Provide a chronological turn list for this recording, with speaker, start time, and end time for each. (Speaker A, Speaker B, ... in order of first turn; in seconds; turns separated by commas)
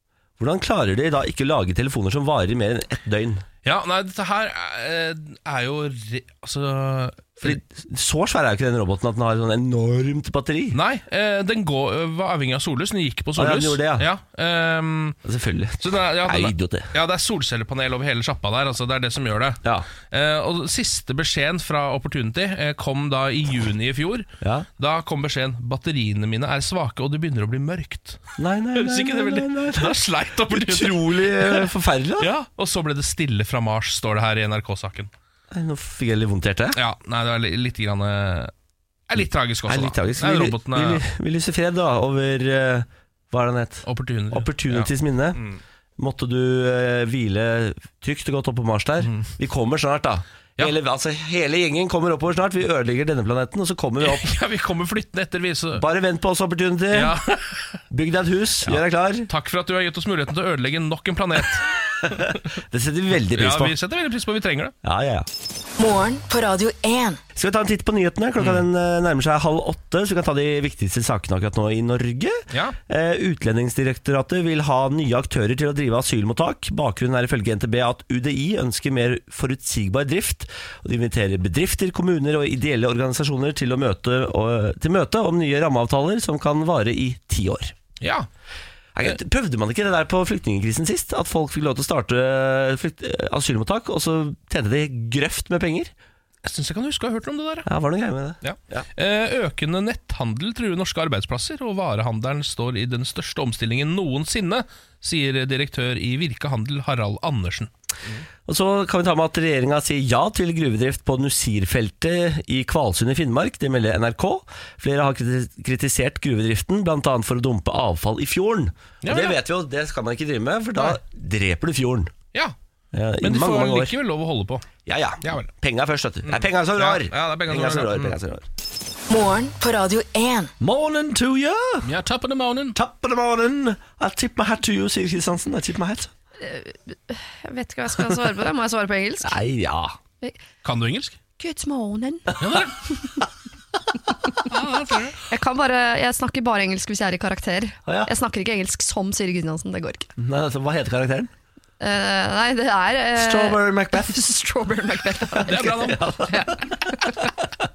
Speaker A: 0.4-3.5, Speaker B: 3.6-7.6, Speaker A: 7.4-10.8, Speaker B: 10.7-15.2, Speaker A: 13.4-14.1, Speaker A: 15.2-16.9, Speaker B: 15.8-28.2, Speaker A: 24.4-24.7, Speaker A: 28.4-30.0, Speaker B: 28.8-35.1, Speaker A: 30.5-32.3, Speaker A: 35.5-36.8, Speaker B: 36.7-38.5, Speaker B: 39.1-41.0, Speaker A: 39.7-45.4, Speaker B: 43.9-45.6, Speaker A: 46.0-54.3, Speaker B: 49.0-49.3, Speaker B: 54.0-55.9, Speaker A: 55.8-57.2, Speaker B: 56.9-57.8, Speaker A: 57.9-59.3, Speaker B: 58.6-62.4, Speaker A: 62.0-63.8, Speaker B: 63.3-64.7, Speaker A: 64.8-65.3, Speaker C: 65.8-67.2, Speaker A: 67.3-87.8, Speaker B: 68.4-68.6, Speaker B: 72.5-72.8, Speaker B: 88.0-88.3, Speaker A: 89.0-95.9, Speaker B: 96.4-97.7, Speaker A: 97.7-98.9, Speaker B: 98.4-107.7, Speaker A: 108.5-122.1, Speaker B: 119.0-119.4, Speaker A: 122.9-123.9, Speaker B: 123.2-124.7, Speaker A: 124.9-128.5, Speaker B: 125.2-125.5, Speaker B: 126.2-128.2, Speaker C: 129.1-130.5, Speaker A: 130.6-131.9, Speaker B: 131.8-132.8, Speaker A: 132.8-136.1, Speaker D: 136.4-139.4, Speaker A: 139.2-139.9, Speaker B: 140.6-141.2, Speaker D: 141.4-142.4, Speaker B: 142.4-142.8, Speaker B: 144.4-145.2, Speaker D: 145.3-150.1, Speaker A: 150.2-151.3, Speaker D: 151.8-157.3, Speaker A: 153.2-154.2, Speaker A: 155.3-157.5, Speaker B: 155.5-156.2